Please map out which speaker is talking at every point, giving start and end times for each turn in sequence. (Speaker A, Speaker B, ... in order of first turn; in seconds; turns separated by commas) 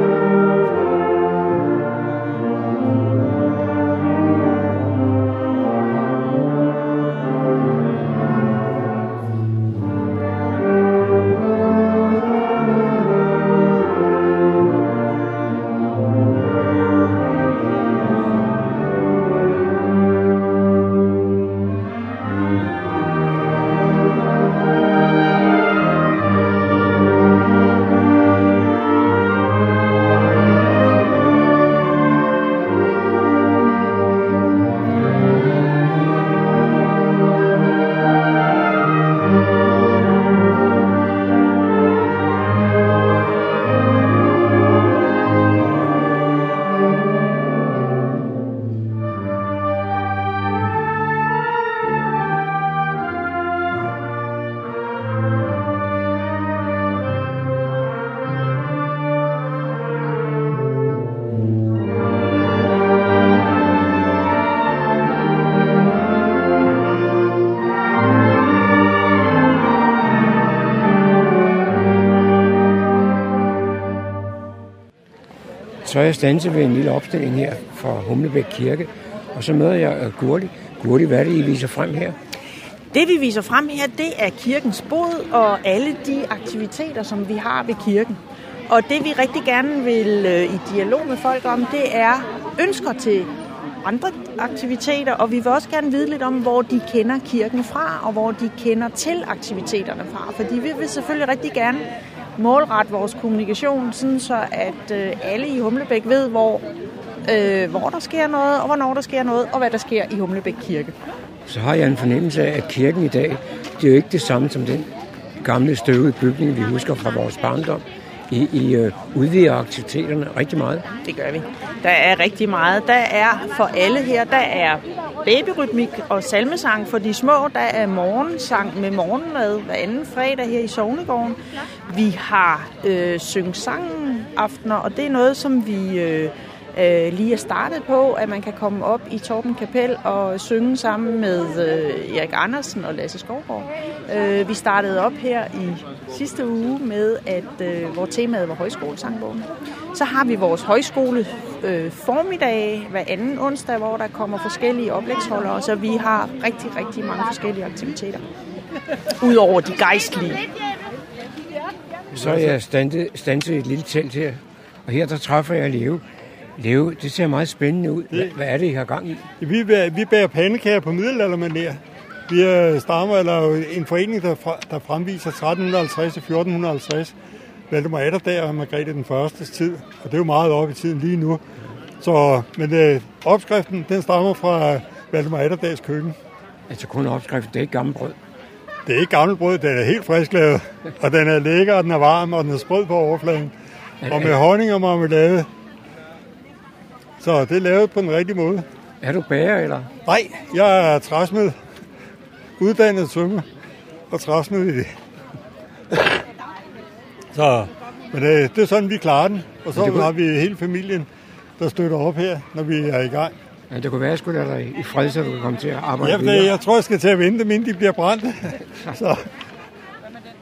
Speaker A: 75.8-82.2, Speaker B: 82.9-106.7, Speaker B: 107.3-111.0, Speaker A: 111.5-120.8, Speaker B: 121.0-158.3, Speaker B: 159.2-160.4, Speaker A: 162.1-166.0, Speaker A: 166.6-169.3, Speaker C: 169.4-177.2, Speaker C: 177.7-181.4, Speaker C: 182.0-186.2, Speaker A: 186.7-188.2, Speaker C: 188.9-193.5, Speaker A: 194.0-194.4, Speaker C: 194.1-195.5, Speaker C: 197.2-198.7, Speaker A: 199.0-199.9, Speaker C: 200.1-201.6, Speaker C: 202.6-203.4, Speaker C: 204.1-204.9, Speaker C: 207.3-211.1, Speaker A: 209.8-210.1, Speaker C: 211.6-213.3, Speaker A: 213.7-216.6, Speaker C: 216.0-219.2